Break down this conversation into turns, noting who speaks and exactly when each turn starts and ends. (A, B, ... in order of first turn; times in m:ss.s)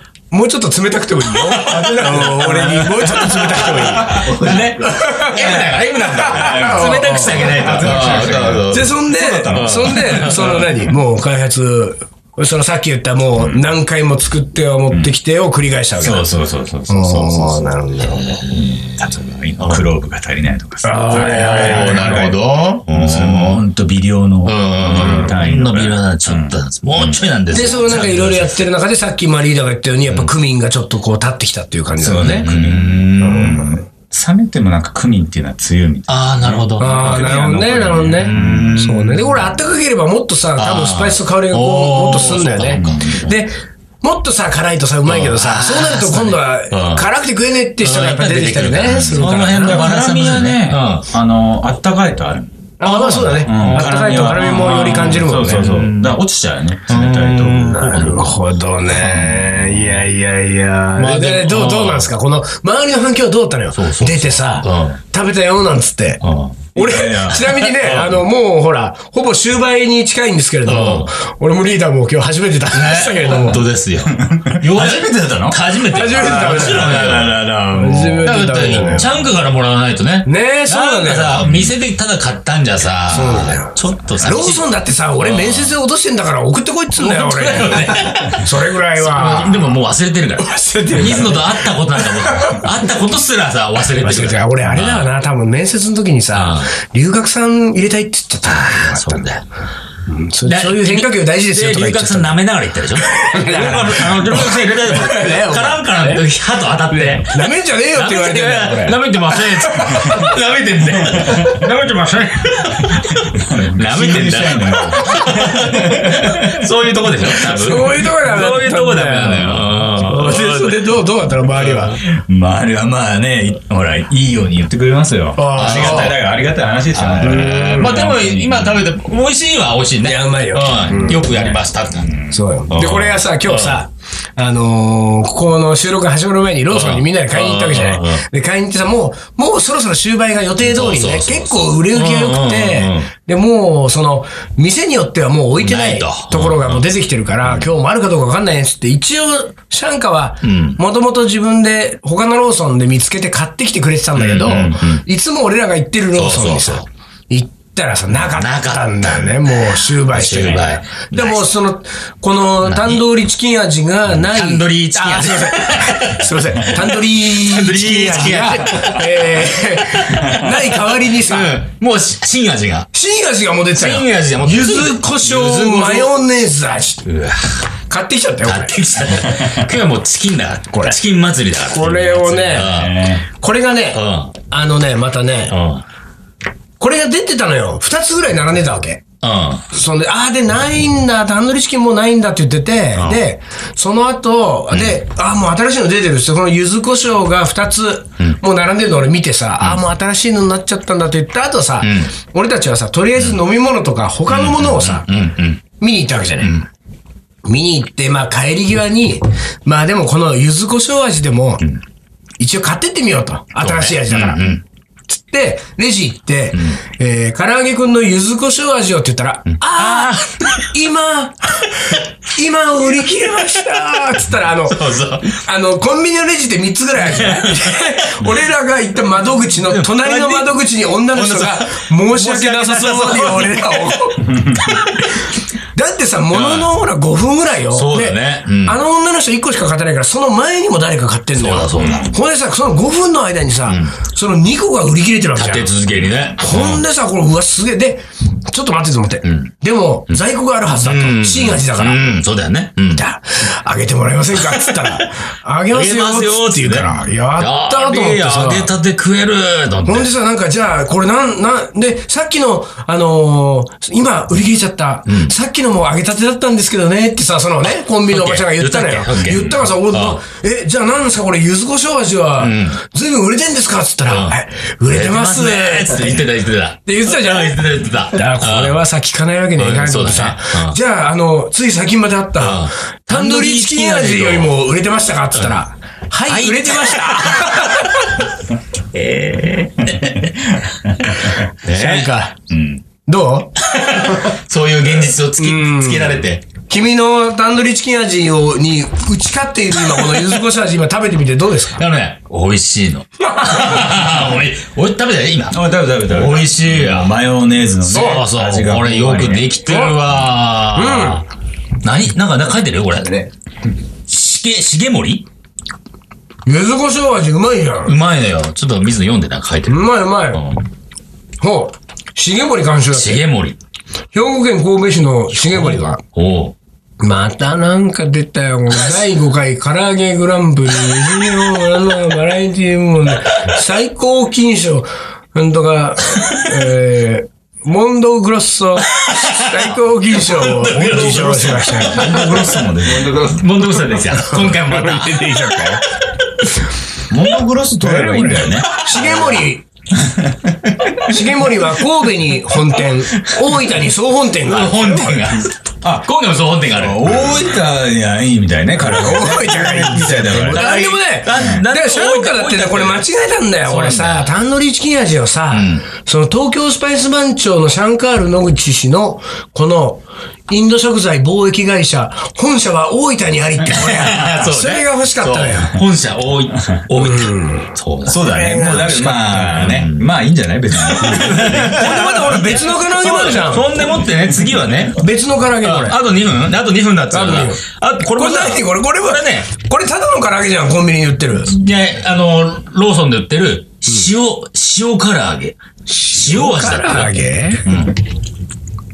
0:00.3-0:05.6 A
0:01.5-0:02.3 B
0:01.9-0:05.6 C
0:04.0-0:10.6 B
0:06.2-0:07.6 A
0:06.3-0:10.7 C
0:08.7-0:16.3 A
0:13.4-0:13.6 C
0:16.0-0:17.7 C
0:16.9-0:18.4 A
0:18.0-0:19.8 B
0:18.8-0:27.2 C
0:20.8-0:22.3 A
0:21.1-0:23.6 B
0:24.4-0:28.6 B
0:27.5-0:32.4 A
0:32.0-0:38.9 C
0:32.4-0:33.7 B
0:36.1-0:37.5 B
0:36.8-0:49.8 A
0:38.2-0:39.5 B
0:40.6-0:43.3 B
0:42.8-0:43.2 C
0:45.0-0:47.1 B
0:47.8-0:51.0 B
0:48.9-0:58.3 C
0:52.8-0:55.7 A
0:53.5-0:56.2 B
0:56.9-0:59.9 B
0:57.8-1:06.2 A
1:01.0-1:02.1 B
1:03.7-1:05.0 B
1:06.2-1:06.7 B
1:06.7-1:13.6 A
1:06.8-1:07.7 C
1:07.5-1:08.2 B
1:10.6-1:11.1 B
1:12.7-1:17.4 B
1:14.0-1:19.2 C
1:15.9-1:19.2 A
1:18.2-1:24.7 B
1:20.2-1:21.4 A
1:21.4-1:21.8 C
1:23.1-1:29.7 A
1:25.2-1:25.7 B
1:27.0-1:35.1 B
1:30.4-1:32.7 A
1:33.9-1:39.2 A
1:36.3-1:36.7 B
1:38.5-1:39.4 B
1:40.1-1:42.4 A
1:40.4-2:01.0 B
1:43.0-1:46.2 A
1:46.9-1:50.3 A
1:51.0-1:51.6 C
1:52.9-1:56.7 C
1:57.4-2:02.0 A
2:01.6-2:01.9 B
2:02.0-2:08.8 C
2:05.4-2:06.1 A
2:05.5-2:06.2 B
2:06.9-2:12.2 B
2:07.2-2:08.0 A
2:10.0-2:11.2 A
2:11.1-2:12.4 C
2:12.3-2:51.6 A
2:12.7-2:13.8 B
2:16.7-2:18.2 B
2:20.6-2:23.1 B
2:25.6-2:26.8 B
2:27.4-2:27.7 B
2:30.4-2:30.8 B
2:34.2-2:35.0 B
2:36.1-2:36.8 B
2:38.2-2:39.4 B
2:40.0-2:41.4 B
2:42.6-2:43.0 B
2:44.2-2:52.9 B
2:52.9-2:57.1 A
2:53.7-2:56.2 B
2:57.0-2:57.6 B
2:57.9-2:59.1 A
2:58.4-3:03.1 B
2:59.2-2:59.7 C
3:00.7-3:01.0 A
3:01.7-3:02.7 A
3:02.0-3:03.2 C
3:03.3-3:05.6 A
3:03.9-3:04.3 B
3:05.5-3:05.8 B
3:06.8-3:09.0 A
3:09.2-3:09.6 B
3:09.7-3:25.0 A
3:13.0-3:13.2 B
3:21.8-3:22.1 B
3:24.3-3:25.6 B
3:25.8-3:26.6 A
3:26.4-3:26.6 B
3:27.4-3:31.6 A
3:32.4-3:34.4 A
3:33.6-3:34.6 B
3:35.1-3:54.4 A
3:36.5-3:36.8 B
3:39.5-3:40.7 B
3:44.7-3:45.3 B
3:47.1-3:48.2 B
3:49.6-3:50.5 B
3:51.1-3:54.0 B
3:54.2-3:54.8 C
3:54.6-3:55.2 B
3:55.2-4:05.8 A
3:56.3-3:56.7 B
3:57.7-3:58.8 B
4:01.4-4:02.2 B
4:03.7-4:03.9 B
4:05.4-4:06.8 B
4:06.4-4:12.0 A
4:09.2-4:09.5 B
4:10.8-4:13.0 B
4:12.9-4:18.7 A
4:14.5-4:14.8 B
4:15.7-4:20.1 B
4:19.8-4:36.2 A
4:25.1-4:25.3 B
4:28.1-4:30.2 B
4:32.4-4:32.8 B
4:34.0-4:34.4 B
4:34.9-4:38.8 B
4:36.8-4:48.2 A
4:39.6-4:40.8 B
4:42.4-4:44.6 B
4:45.3-4:45.6 B
4:46.2-4:48.1 B
4:48.9-4:52.1 B
4:49.9-4:50.6 C
4:51.7-4:52.4 A
4:52.5-4:52.8 C
4:53.0-4:54.2 A
4:53.6-4:56.4 B
4:55.4-5:01.8 A
5:01.8-5:07.1 B
5:03.3-5:03.7 A
5:05.5-5:09.6 C
5:07.8-5:11.2 B
5:07.9-5:08.3 A
5:09.6-5:10.0 A
5:10.7-5:11.2 A
5:11.8-5:13.3 B
5:14.1-5:15.2 B
5:16.4-5:18.0 A
5:17.8-5:20.6 B
5:19.7-5:20.4 A
5:21.4-5:23.2 A
5:22.9-5:23.6 B
5:24.1-5:26.0 A
5:25.5-5:26.5 B
5:27.0-5:42.3 A
5:39.0-5:45.7 B
5:40.8-5:43.4 C
5:42.9-5:43.4 A
5:44.1-5:46.6 A
5:47.1-5:49.0 C
5:47.8-5:49.6 A
5:48.3-5:49.4 B
5:49.9-5:50.6 C
5:51.0-5:55.3 A
5:54.4-5:57.4 B
5:56.7-6:00.8 C
5:58.8-6:15.8 A
6:00.3-6:03.1 B
6:01.3-6:01.6 C
6:03.6-6:04.3 B
6:05.5-6:05.8 B
6:13.6-6:20.2 B
6:16.9-6:19.5 A
6:18.0-6:22.0 C
6:20.8-6:25.0 B
6:21.0-6:23.8 A
6:25.0-6:26.0 A
6:25.6-6:29.5 B
6:27.1-6:31.5 A
6:31.5-6:38.0 B
6:35.9-6:37.7 A